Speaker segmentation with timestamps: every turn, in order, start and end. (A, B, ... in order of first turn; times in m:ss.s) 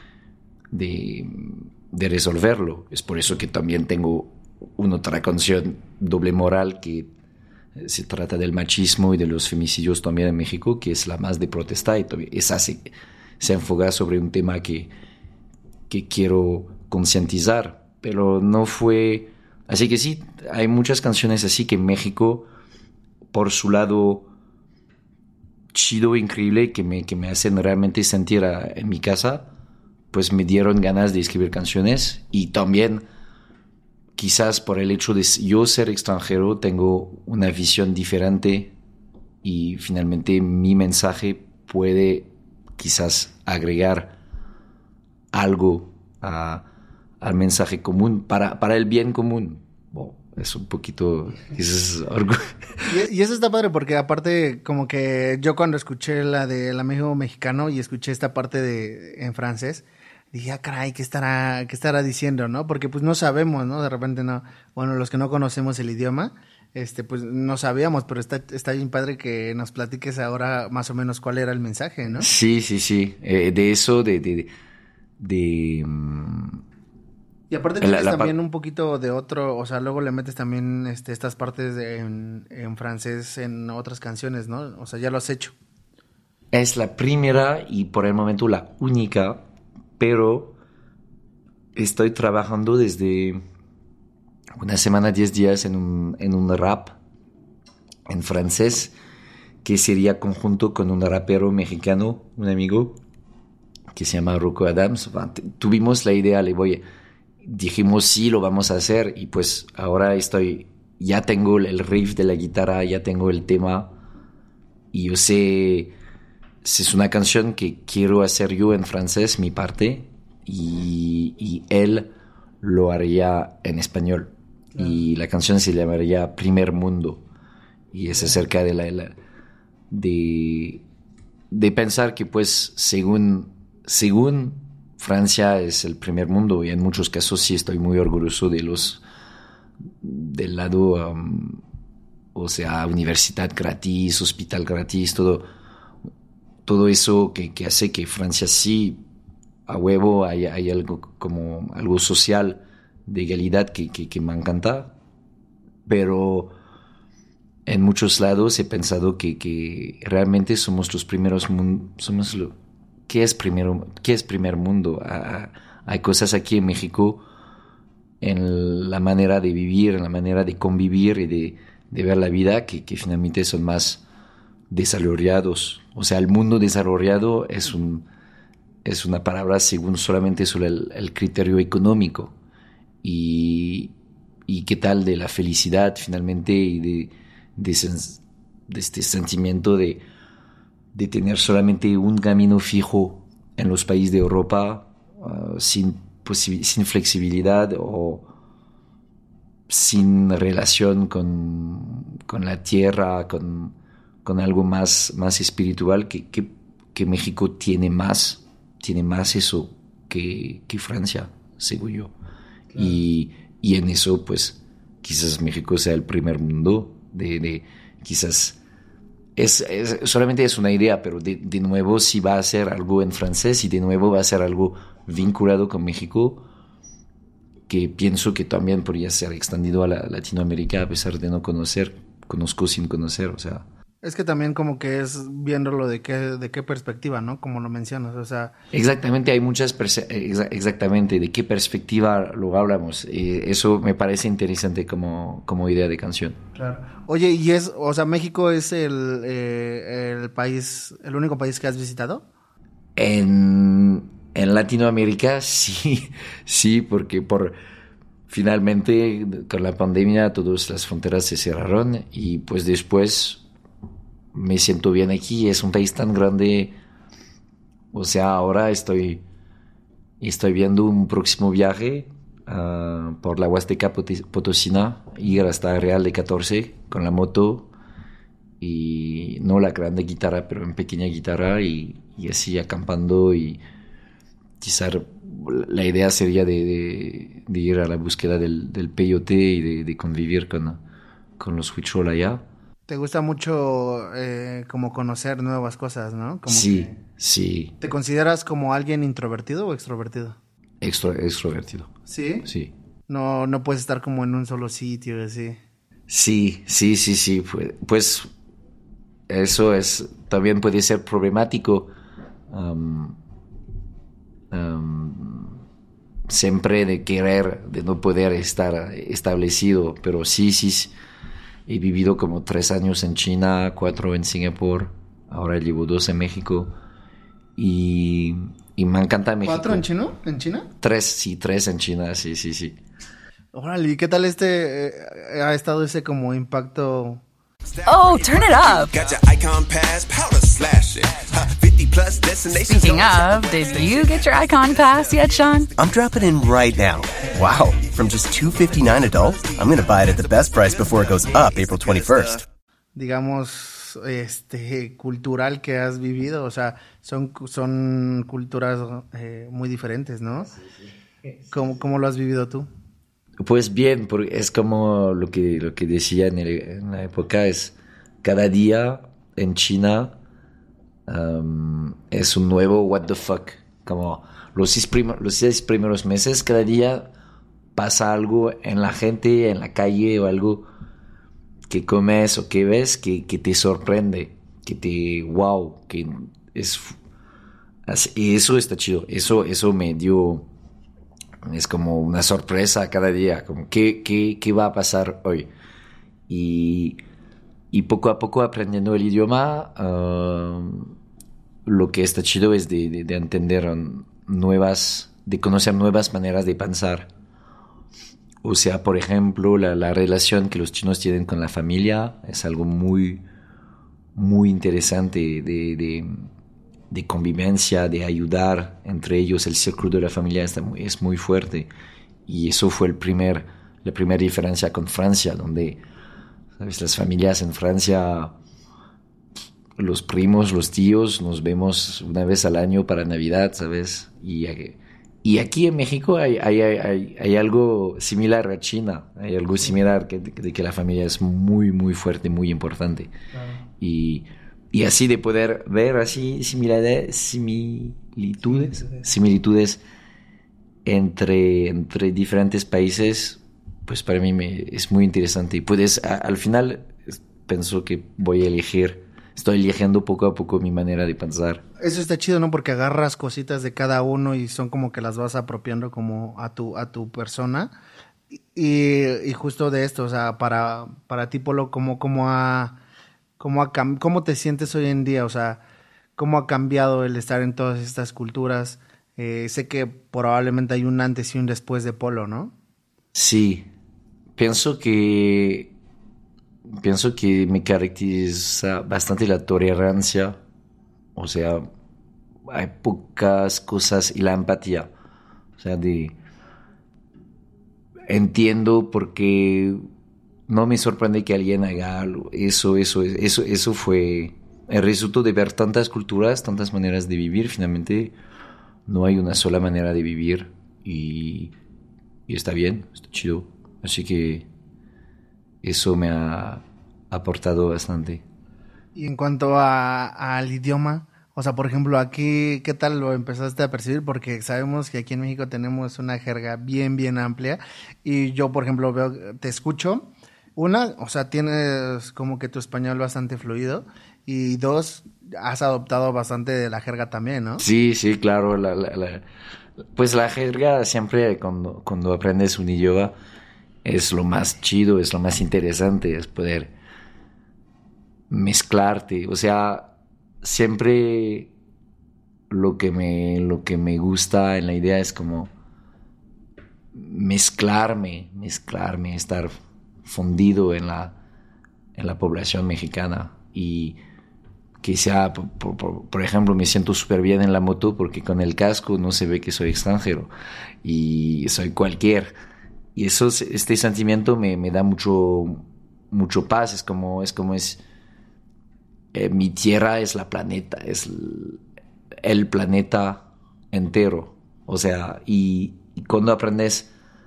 0:00.7-0:07.1 A
0:07.8-0:14.9 A
0:15.9-0:22.5 A
0:23.3-0:24.3 A
0:25.7-0:29.5 A
0:30.1-0:33.0 A
0:34.2-0:38.8 A
0:39.4-0:44.2 A
0:45.3-0:46.6 A
0:47.2-0:52.9 A
0:52.9-1:12.3 B
1:12.2-1:14.5 A
1:15.2-1:16.6 A
1:17.5-1:25.6 B
1:17.8-1:18.4 A
1:26.5-1:29.4 A
1:30.0-1:30.6 A
1:31.8-1:33.4 A
1:34.6-1:37.0 A
1:38.1-1:38.9 A
1:39.6-1:43.0 A
1:43.9-1:46.8 A
1:47.4-1:53.9 A
1:54.9-1:55.9 A
1:56.6-2:02.1 A
2:02.6-2:07.2 A
2:07.9-2:09.2 A
2:09.9-2:10.8 A
2:11.5-2:19.0 A
2:20.0-2:21.6 A
2:22.3-2:25.5 A
2:26.6-2:29.0 A
2:29.7-2:34.9 A
2:35.9-2:36.5 A
2:37.7-2:42.6 A
2:43.1-2:47.2 A
2:48.2-2:54.0 A
2:54.7-2:58.1 A
2:58.8-3:02.3 A
3:03.0-3:03.9 A
3:04.5-3:10.0 A
3:10.9-3:18.3 A
3:19.7-3:32.1 A
3:32.8-3:38.6 A
3:39.4-3:46.5 A
3:47.7-3:53.7 A
3:54.0-3:58.5 B
3:58.7-4:06.4 A
4:06.6-4:12.3 B
4:13.0-4:17.6 A
4:18.3-4:23.4 A
4:24.3-4:26.8 A
4:27.9-4:29.2 A
4:30.2-4:37.7 A
4:38.6-4:43.6 A
4:44.6-4:50.8 A
4:51.4-4:52.4 A
4:52.9-4:57.0 B
4:56.5-4:57.8 A
4:57.8-5:00.4 B
5:00.8-5:01.9 A
5:02.1-5:02.5 B
5:02.4-5:02.7 A
5:03.1-5:05.6 B
5:06.1-5:08.3 A
5:09.3-5:11.9 A
5:12.5-5:13.2 A
5:14.5-5:15.6 A
5:16.3-5:20.9 A
5:21.7-5:26.8 A
5:27.6-5:29.8 A
5:29.4-5:30.7 B
5:30.8-5:32.8 A
5:33.5-5:37.2 B
5:37.7-5:44.4 C
5:37.8-5:38.9 D
5:42.7-5:45.7 D
5:45.8-5:52.4 E
5:49.4-5:50.0 C
5:50.6-5:52.4 C
5:53.0-6:00.5 B
6:01.5-6:02.7 B
6:03.4-6:10.2 A
6:11.1-6:17.1 A
6:17.8-6:20.7 A
6:21.7-6:27.0 A
6:27.9-6:30.5 A
6:31.4-6:35.5 A
6:36.3-6:37.0 A
6:37.7-6:40.9 A
6:41.6-6:47.1 A
6:48.4-6:53.2 A
6:54.2-6:56.3 A
6:56.9-7:01.7 A
7:02.3-7:05.8 A
7:06.6-7:08.3 A
7:09.8-7:23.1 A
7:23.3-7:23.6 B
7:23.8-7:29.8 A
7:30.8-7:41.6 A
7:41.8-7:47.7 B
7:48.6-7:52.8 B
7:53.4-7:55.6 B
7:56.2-8:02.5 B
8:03.1-8:03.7 A
8:04.4-8:05.7 A
8:06.8-8:10.4 A
8:11.2-8:11.6 A
8:12.5-8:14.9 A
8:15.6-8:16.2 A
8:18.1-8:19.8 A
8:20.5-8:28.2 A
8:28.9-8:31.6 A
8:32.3-8:34.5 A
8:35.6-8:38.2 A
8:39.0-8:57.6 B
8:57.6-8:59.2 A
9:00.0-9:03.2 A
9:03.8-9:06.7 A
9:08.3-9:09.9 A
9:10.4-9:11.5 A
9:12.5-9:15.5 A
9:16.9-9:19.5 A
9:20.0-9:21.2 A
9:22.0-9:24.0 A
9:24.8-9:30.3 A
9:30.8-9:32.3 A
9:33.0-9:37.8 A
9:39.1-9:41.6 A
9:42.2-9:46.9 A